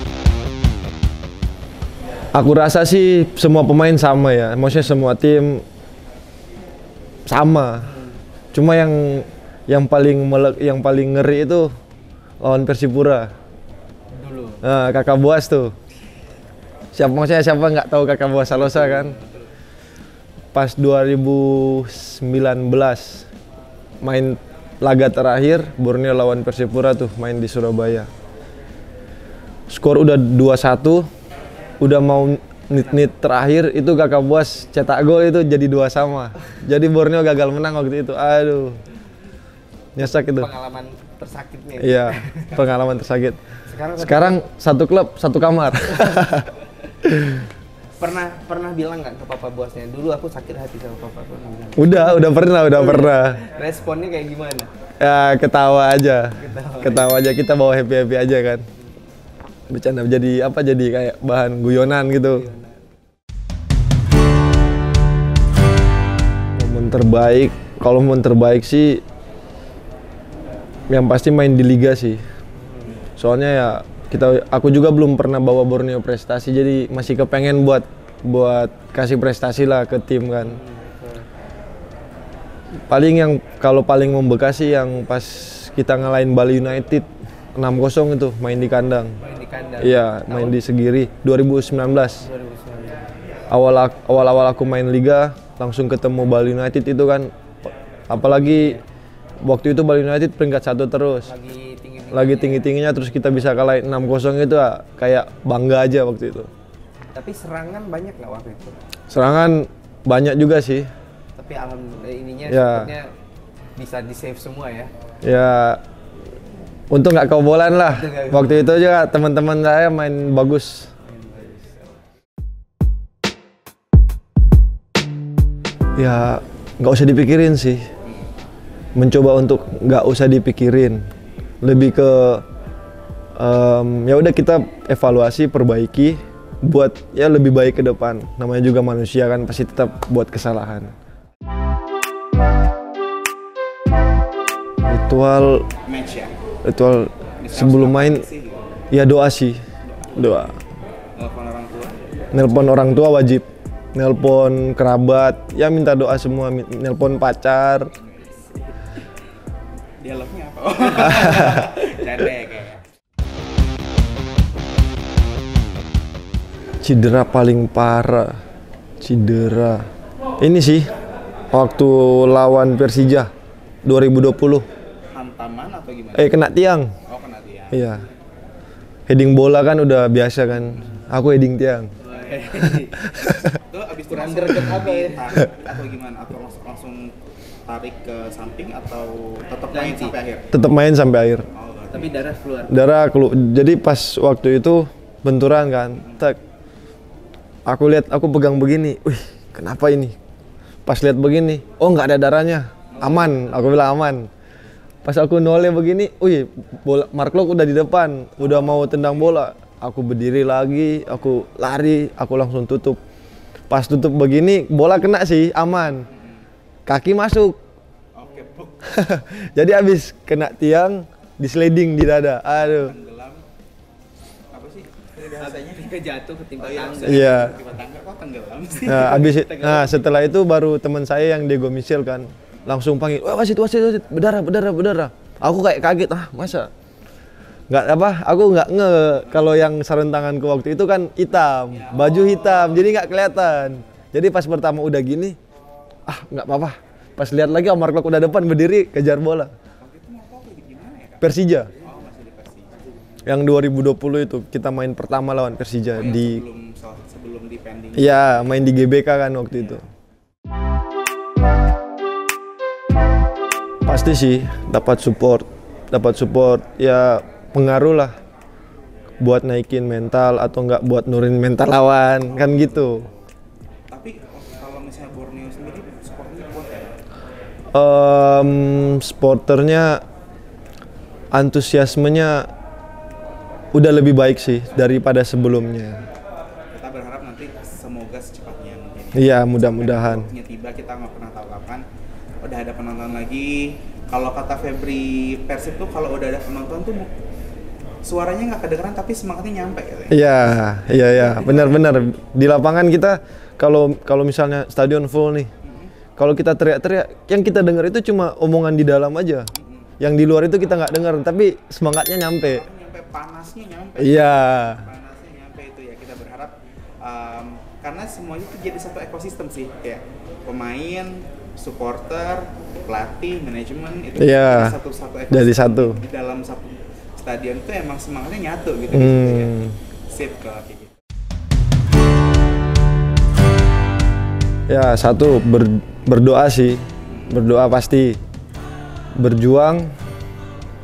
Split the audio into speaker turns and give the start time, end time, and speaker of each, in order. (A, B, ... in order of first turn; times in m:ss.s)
0:02.3-0:05.6 A
0:07.3-0:08.0 A
0:07.8-0:08.2 B
0:08.5-0:11.7 A
0:12.4-0:13.3 A
0:14.1-0:14.6 B
0:14.6-0:15.7 A
0:16.9-0:19.2 A
0:18.7-0:19.3 B
0:20.5-0:23.3 A
0:24.0-0:28.1 A
0:29.7-0:31.1 A
0:31.8-0:38.8 A
0:32.8-0:33.1 B
0:40.0-0:40.5 A
0:40.2-0:42.7 B
0:41.8-0:43.5 A
0:43.6-0:44.4 B
0:44.0-0:46.5 A
0:47.0-0:47.5 A
0:48.0-0:54.7 B
0:51.8-0:53.4 A
0:55.0-0:58.7 A
0:56.4-0:57.2 B
0:59.7-1:02.5 A
1:02.3-1:02.8 B
1:06.6-1:09.0 A
1:10.9-1:12.2 A
1:12.6-1:13.1 B
1:13.2-1:20.6 A
1:20.4-1:21.3 B
1:22.9-1:29.2 A
1:29.2-1:30.6 B
1:29.8-1:32.2 A
1:32.2-1:33.1 B
1:33.5-1:38.8 A
1:38.2-1:38.8 B
1:39.4-1:41.3 A
1:41.2-1:42.7 B
1:42.1-1:46.5 A
1:47.1-1:48.8 B
1:49.1-1:50.9 A
1:51.4-1:53.1 B
1:52.4-1:53.0 A
1:53.8-1:54.9 B
1:55.2-1:55.8 A
1:56.9-2:00.9 A
1:57.9-1:58.6 B
2:01.1-2:01.8 B
2:06.0-2:07.9 A
2:09.0-2:11.1 A
2:11.6-2:12.4 A
2:13.4-2:20.9 A
2:24.9-2:25.7 A
2:25.8-2:26.4 C
2:26.6-2:28.2 A
2:27.4-2:28.7 C
2:28.9-2:29.6 A
2:30.1-2:30.6 A
2:31.2-2:32.1 C
2:32.3-2:37.9 A
2:38.0-2:38.6 C
2:40.0-2:42.9 C
2:46.8-2:48.4 A
2:49.0-2:49.9 A
2:50.4-2:50.9 A
2:51.5-2:53.3 A
2:53.8-2:54.7 A
2:55.1-2:56.4 C
2:56.2-2:56.9 A
2:57.0-2:57.9 C
2:57.7-2:58.0 A
2:59.1-3:01.9 A
3:02.0-3:03.2 B
3:02.1-3:02.6 C
3:02.6-3:03.5 A
3:03.2-3:10.5 C
3:04.0-3:05.4 B
3:09.7-3:10.2 B
3:10.5-3:11.5 A
3:11.5-3:12.2 C
3:11.9-3:12.8 B
3:12.7-3:16.4 A
3:16.0-3:16.3 C
3:17.7-3:20.2 A
3:20.9-3:24.3 A
3:22.9-3:23.4 C
3:23.4-3:23.6 B
3:25.0-3:33.0 A
3:33.7-3:36.1 A
3:36.0-3:36.5 C
3:36.9-3:37.6 A
3:38.1-3:39.0 C
3:38.8-3:43.0 A
3:42.5-3:43.4 C
3:44.5-3:46.0 C
3:45.2-3:47.4 B
3:46.6-3:49.5 C
3:47.0-3:47.6 A
3:48.8-3:56.7 A
3:49.0-3:50.2 B
3:57.7-4:05.4 A
3:59.2-3:59.5 C
4:01.7-4:03.7 C
4:06.1-4:09.5 A
4:09.8-4:12.8 C
4:11.2-4:11.7 A
4:13.2-4:16.4 A
4:15.9-4:18.8 C
4:18.0-4:19.8 A
4:23.8-4:28.1 A
4:29.2-4:33.1 A
4:32.2-4:33.2 C
4:33.9-4:37.0 C
4:37.7-4:40.0 A
4:41.3-4:42.5 A
4:43.7-4:46.0 A
4:46.7-4:51.8 C
4:49.1-4:50.3 A
4:52.4-4:57.1 C
4:58.0-5:00.2 C
5:00.1-5:05.5 A
5:01.0-5:02.0 C
5:05.6-5:06.0 C
5:06.2-5:09.5 A
5:09.5-5:10.0 C
5:10.0-5:12.6 A
5:12.4-5:31.0 C
5:14.0-5:14.9 A
5:24.2-5:24.8 A
5:25.3-5:26.0 A
5:28.9-5:29.8 A
5:34.7-5:38.2 A
5:37.0-5:37.4 C
5:39.2-5:39.9 A